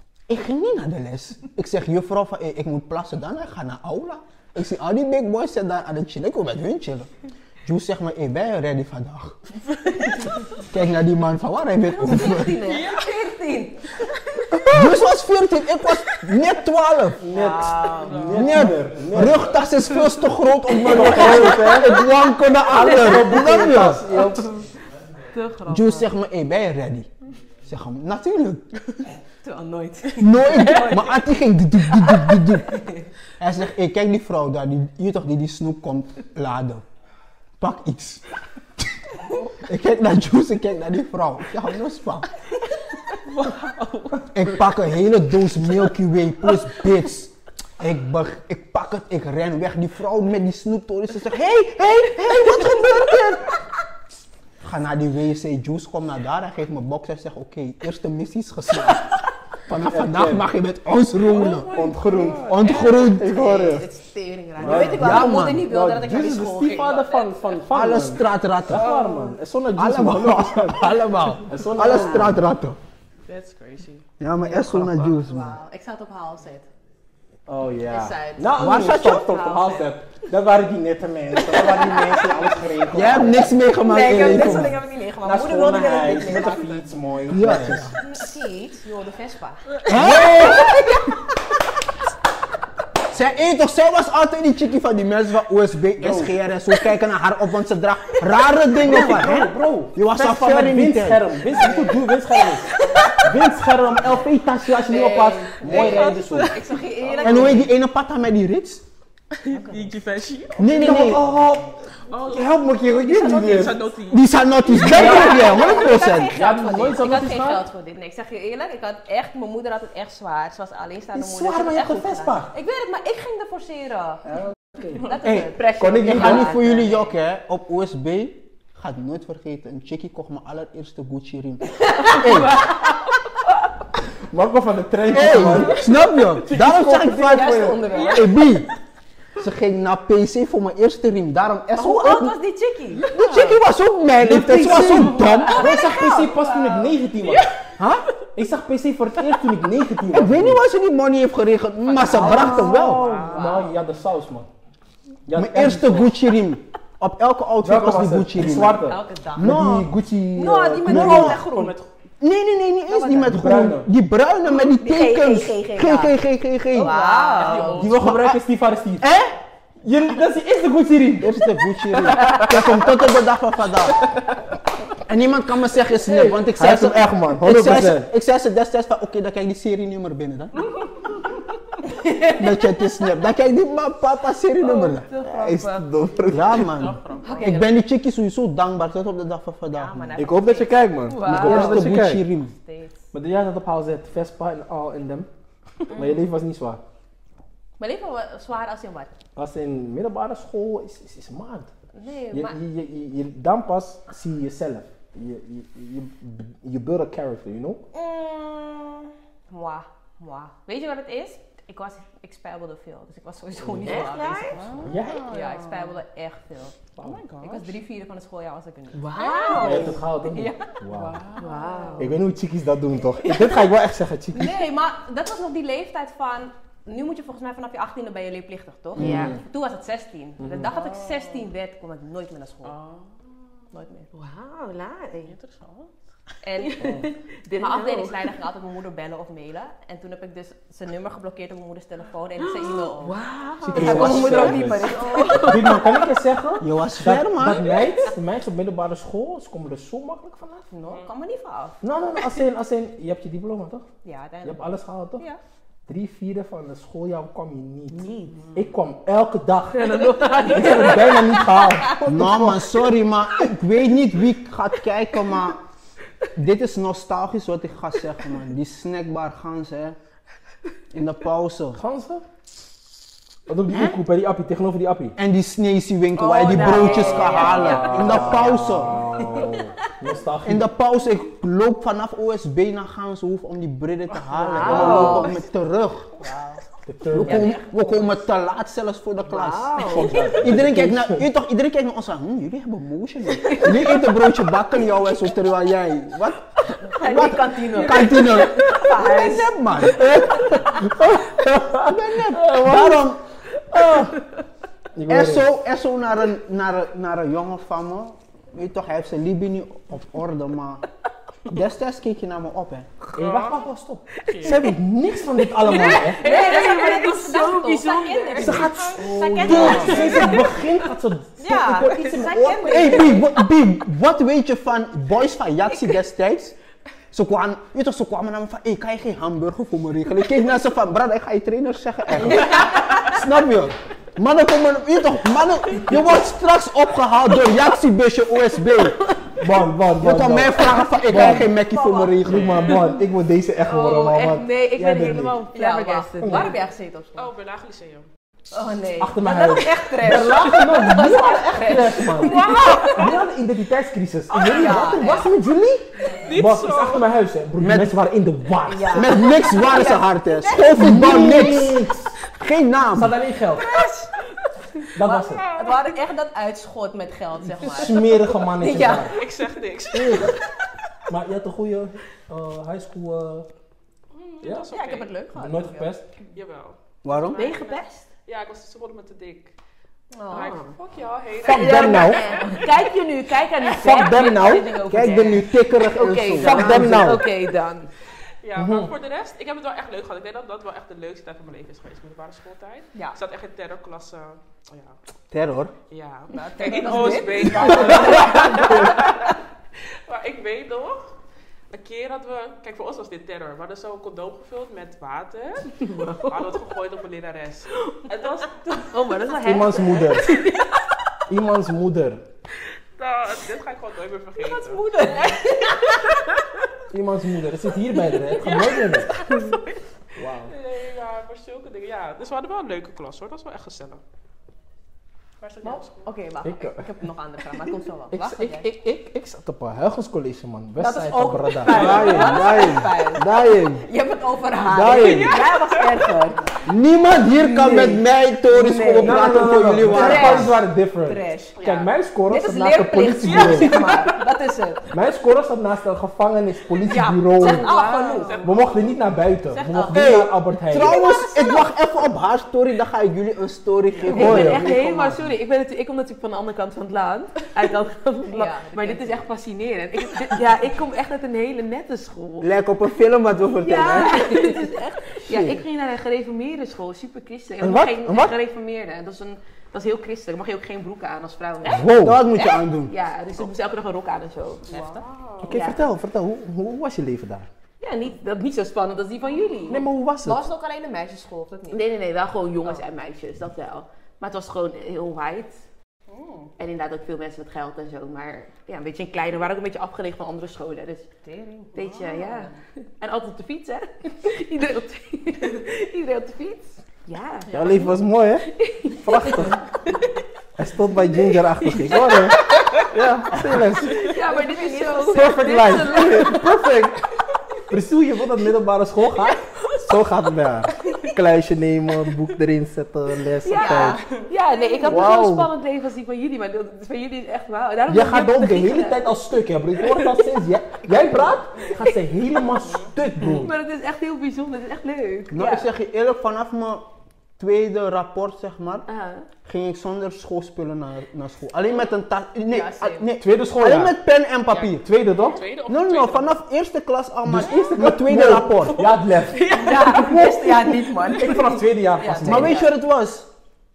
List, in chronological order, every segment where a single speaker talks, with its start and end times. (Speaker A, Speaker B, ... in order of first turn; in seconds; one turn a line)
Speaker A: 0.3-7.1
Speaker A: 7.6-9.4
Speaker A: 10.6-12.6
Speaker B: 11.9-14.7
Speaker C: 12.6-13.3
Speaker A: 14.6-17.2
Speaker D: 17.2-19.6
Speaker B: 17.3-18.5
Speaker C: 17.9-18.6
Speaker A: 18.3-24.2
Speaker B: 20.8-21.6
Speaker D: 20.8-22.1
Speaker D: 22.6-24.5
Speaker E: 25.3-26.0
Speaker A: 25.7-27.1
Speaker A: 27.6-28.7
Speaker B: 29.4-31.2
Speaker A: 30.2-32.8
Speaker C: 30.5-30.9
Speaker B: 31.9-33.0
Speaker A: 33.4-36.8
Speaker A: 37.6-38.2
Speaker A: 39.6-42.3
Speaker C: 43.2-44.2
Speaker A: 44.3-53.6
Speaker A: 54.6-61.8
Speaker D: 59.7-60.5
Speaker C: 61.2-63.0
Speaker D: 61.4-63.9
Speaker A: 62.3-63.5
Speaker B: 62.7-67.3
Speaker D: 64.6-72.4
Speaker A: 64.6-65.7
Speaker A: 67.7-68.9
Speaker C: 68.7-69.3
Speaker A: 69.8-72.8
Speaker B: 71.8-72.2
Speaker C: 73.3-74.0
Speaker A: 74.2-75.5
Speaker B: 74.5-76.7
Speaker D: 77.5-88.1
Speaker B: 77.8-79.9
Speaker A: 78.5-79.3
Speaker B: 81.5-87.0
Speaker A: 82.9-84.8
Speaker A: 87.3-88.0
Speaker B: 88.0-89.9
Speaker A: 89.8-91.2
Speaker D: 89.9-90.7
Speaker A: 93.1-101.2
Speaker D: 96.0-96.3
Speaker D: 98.8-106.7
Speaker B: 101.5-102.0
Speaker B: 102.9-103.2
Speaker B: 104.8-107.7
Speaker C: 105.6-107.5
Speaker E: 106.7-107.5
Speaker A: 107.2-108.8
Speaker C: 109.3-110.7
Speaker B: 109.5-109.8
Speaker A: 110.6-111.2
Speaker D: 110.6-113.8
Speaker C: 112.1-114.2
Speaker A: 114.1-116.3
Speaker B: 114.7-124.2
Speaker D: 114.8-115.5
Speaker D: 116.3-117.7
Speaker D: 121.1-122.5
Speaker D: 124.8-126.7
Speaker B: 125.0-127.1
Speaker A: 126.0-132.7
Speaker B: 132.0-132.7
Speaker D: 134.3-137.8
Speaker A: 135.1-138.7
Speaker B: 136.7-138.3
Speaker C: 137.9-138.6
Speaker A: 139.4-142.3
Speaker B: 141.8-143.5
Speaker A: 143.0-145.7
Speaker D: 144.2-147.5
Speaker B: 145.1-146.8
Speaker E: 145.5-146.3
Speaker C: 147.2-147.5
Speaker A: 147.8-148.1
Speaker D: 148.3-150.6
Speaker A: 150.1-153.1
Speaker B: 151.9-153.7
Speaker D: 152.1-154.5
Speaker E: 152.3-152.7
Speaker C: 152.8-153.5
Speaker D: 155.3-156.2
Speaker A: 155.3-159.9
Speaker D: 157.6-161.7
Speaker B: 158.8-159.6
Speaker B: 160.3-161.8
Speaker A: 160.8-161.4
Speaker C: 161.5-161.8
Speaker A: 162.2-166.9
Speaker B: 162.9-163.3
Speaker D: 163.2-163.9
Speaker B: 164.5-166.1
Speaker B: 166.7-168.0
Speaker E: 166.7-167.8
Speaker C: 167.3-168.0
Speaker D: 167.4-169.1
Speaker A: 169.0-169.4
Speaker D: 169.8-171.4
Speaker A: 171.2-174.1
Speaker D: 172.0-172.7
Speaker A: 175.1-180.7
Speaker D: 176.0-178.1
Speaker A: 182.2-185.1
Speaker E: 184.6-185.8
Speaker D: 185.2-186.7
Speaker A: 186.3-190.2
Speaker C: 186.6-187.5
Speaker E: 187.2-187.6
Speaker B: 187.2-187.6
Speaker B: 189.7-193.0
Speaker D: 190.2-192.3
Speaker E: 191.1-191.5
Speaker A: 191.2-192.5
Speaker D: 193.1-195.3
Speaker D: 195.9-196.8
Speaker B: 197.8-199.1
Speaker D: 199.3-201.7
Speaker B: 201.9-202.6
Speaker D: 202.3-207.8
Speaker B: 207.9-216.8
Speaker D: 213.6-214.0
Speaker E: 213.8-214.8
Speaker C: 213.9-215.9
Speaker D: 214.8-215.3
Speaker C: 217.0-217.8
Speaker B: 217.4-220.7
Speaker E: 218.9-220.0
Speaker D: 219.5-221.2
Speaker C: 220.9-221.6
Speaker E: 221.4-222.2
Speaker B: 221.4-222.2
Speaker D: 222.0-224.7
Speaker B: 223.2-223.6
Speaker B: 224.3-232.7
Speaker D: 228.9-229.4
Speaker E: 229.0-229.3
Speaker D: 230.4-230.7
Speaker C: 230.7-231.5
Speaker C: 232.6-233.3
Speaker B: 233.7-235.3
Speaker C: 235.3-235.9
Speaker B: 236.4-243.2
Speaker E: 236.6-238.2
Speaker D: 236.8-237.1
Speaker E: 242.4-246.1
Speaker D: 243.6-250.7
Speaker B: 243.7-246.0
Speaker A: 246.6-247.7
Speaker B: 250.7-251.8
Speaker D: 251.8-253.8
Speaker B: 254.0-255.4
Speaker D: 254.4-255.2
Speaker D: 255.9-262.8
Speaker E: 257.9-258.4
Speaker B: 258.0-258.5
Speaker E: 259.7-261.9
Speaker A: 262.0-265.6
Speaker A: 266.4-270.0
Speaker A: 270.9-271.8
Speaker D: 271.7-272.2
Speaker D: 273.5-275.1
Speaker A: 273.7-274.0
Speaker A: 275.2-279.0
Speaker B: 276.2-278.4
Speaker E: 276.5-277.9
Speaker C: 277.1-277.7
Speaker D: 277.5-280.7
Speaker B: 279.1-279.5
Speaker A: 280.4-286.1
Speaker C: 284.1-285.2
Speaker E: 284.5-285.3
Speaker B: 284.5-285.3
Speaker D: 284.5-285.3
Speaker D: 286.8-287.6
Speaker A: 287.1-303.2
Speaker B: 287.2-287.6
Speaker B: 289.2-290.4
Speaker D: 289.8-291.2
Speaker B: 296.8-299.5
Speaker E: 297.7-298.9
Speaker D: 300.0-303.1
Speaker D: 303.7-304.2
Speaker D: 304.9-305.5
Speaker A: 305.1-310.8
Speaker A: 311.5-312.9
Speaker D: 313.0-316.2
Speaker C: 313.1-313.7
Speaker C: 314.2-314.7
Speaker E: 315.6-318.7
Speaker C: 315.6-320.3
Speaker B: 315.8-320.6
Speaker D: 318.4-323.1
Speaker A: 319.4-319.8
Speaker E: 319.4-320.5
Speaker B: 321.4-323.4
Speaker A: 322.4-326.5
Speaker A: 327.1-339.0
Speaker B: 332.3-333.1
Speaker C: 332.6-332.9
Speaker D: 339.4-341.5
Speaker A: 339.9-342.7
Speaker B: 341.1-342.3
Speaker D: 342.2-345.4
Speaker C: 342.2-343.0
Speaker E: 343.6-346.6
Speaker B: 345.0-347.3
Speaker D: 346.2-346.5
Speaker C: 347.1-348.1
Speaker B: 348.5-353.0
Speaker D: 349.0-359.1
Speaker E: 350.0-353.0
Speaker C: 352.2-353.1
Speaker B: 354.3-355.3
Speaker C: 356.2-357.1
Speaker A: 357.6-358.0
Speaker B: 358.6-360.7
Speaker A: 358.9-363.1
Speaker D: 360.7-362.1
Speaker D: 362.9-363.7
Speaker B: 363.5-364.1
Speaker D: 364.9-365.5
Speaker B: 365.0-369.2
Speaker C: 365.4-365.9
Speaker D: 367.4-369.2
Speaker C: 368.9-370.4
Speaker D: 369.9-370.4
Speaker D: 371.1-373.5
Speaker C: 374.1-375.1
Speaker B: 374.7-375.9
Speaker D: 375.3-376.0
Speaker C: 376.3-379.5
Speaker A: 377.0-377.4
Speaker E: 377.4-377.9
Speaker B: 377.4-377.9
Speaker B: 380.2-380.7
Speaker E: 380.3-380.5
Speaker C: 380.3-382.7
Speaker D: 381.4-382.2
Speaker E: 381.4-387.9
Speaker B: 381.7-382.7
Speaker D: 383.7-384.9
Speaker A: 384.9-387.1
Speaker D: 386.4-387.3
Speaker C: 388.4-394.9
Speaker D: 388.6-388.9
Speaker A: 395.3-395.7
Speaker C: 395.9-399.3
Speaker B: 396.3-399.1
Speaker E: 396.6-398.9
Speaker D: 397.5-398.9
Speaker C: 400.1-401.1
Speaker C: 401.7-408.9
Speaker E: 405.8-406.4
Speaker E: 408.9-410.7
Speaker D: 409.4-410.4
Speaker D: 411.3-412.2
Speaker C: 413.0-415.3
Speaker B: 414.4-416.0
Speaker E: 414.9-415.5
Speaker D: 416.9-419.2
Speaker C: 418.3-419.5
Speaker E: 419.3-419.6
Speaker D: 420.1-420.5
Speaker C: 420.5-424.0
Speaker C: 425.4-426.0
Speaker B: 425.6-428.7
Speaker D: 426.4-426.8
Speaker D: 428.1-432.8
Speaker B: 430.8-436.5
Speaker A: 431.7-433.8
Speaker D: 434.7-435.4
Speaker C: 434.9-436.2
Speaker A: 436.6-440.6
Speaker B: 437.3-441.7
Speaker D: 438.9-443.9
Speaker E: 439.9-440.4
Speaker C: 441.6-441.9
Speaker B: 442.3-444.9
Speaker C: 443.2-444.3
Speaker D: 444.9-447.7
Speaker B: 446.9-448.5
Speaker E: 447.3-448.4
Speaker C: 447.9-449.0
Speaker D: 448.4-451.0
Speaker B: 449.5-450.2
Speaker A: 449.9-455.2
Speaker B: 450.8-451.6
Speaker D: 454.0-454.7
Speaker E: 454.1-462.5
Speaker B: 458.3-459.2
Speaker A: 462.4-464.3
Speaker E: 463.6-474.7
Speaker B: 464.1-464.6
Speaker A: 465.3-465.6
Speaker D: 467.6-468.3
Speaker A: 471.7-472.9
Speaker D: 471.7-472.2
Speaker C: 474.7-475.6
Speaker B: 474.7-475.0
Speaker D: 475.4-477.5
Speaker E: 475.5-475.8
Speaker E: 477.8-479.8
Speaker D: 479.7-480.4
Speaker B: 480.2-481.8
Speaker E: 481.7-485.6
Speaker B: 486.1-486.4
Speaker E: 486.6-491.1
Speaker B: 491.2-492.5
Speaker E: 491.7-497.5
Speaker D: 497.5-499.6
Speaker B: 497.5-497.9
Speaker E: 498.4-500.0
Speaker D: 500.6-504.2
Speaker E: 501.6-502.7
Speaker E: 503.8-506.5
Speaker B: 504.0-505.4
Speaker D: 505.0-507.0
Speaker D: 507.7-514.0
Speaker E: 513.4-519.1
Speaker B: 513.5-515.1
Speaker D: 514.9-515.5
Speaker D: 517.9-523.5
Speaker E: 519.9-520.2
Speaker E: 521.0-521.9
Speaker E: 523.2-525.7
Speaker A: 525.3-526.9
Speaker A: 527.4-528.9
Speaker E: 528.9-529.2
Speaker A: 529.4-534.9
Speaker B: 532.5-533.1
Speaker D: 533.1-533.9
Speaker D: 534.7-535.5
Speaker C: 535.2-536.4
Speaker A: 535.7-538.9
Speaker D: 537.2-542.6
Speaker C: 539.3-540.0
Speaker B: 539.5-542.7
Speaker E: 539.8-540.1
Speaker A: 542.2-543.3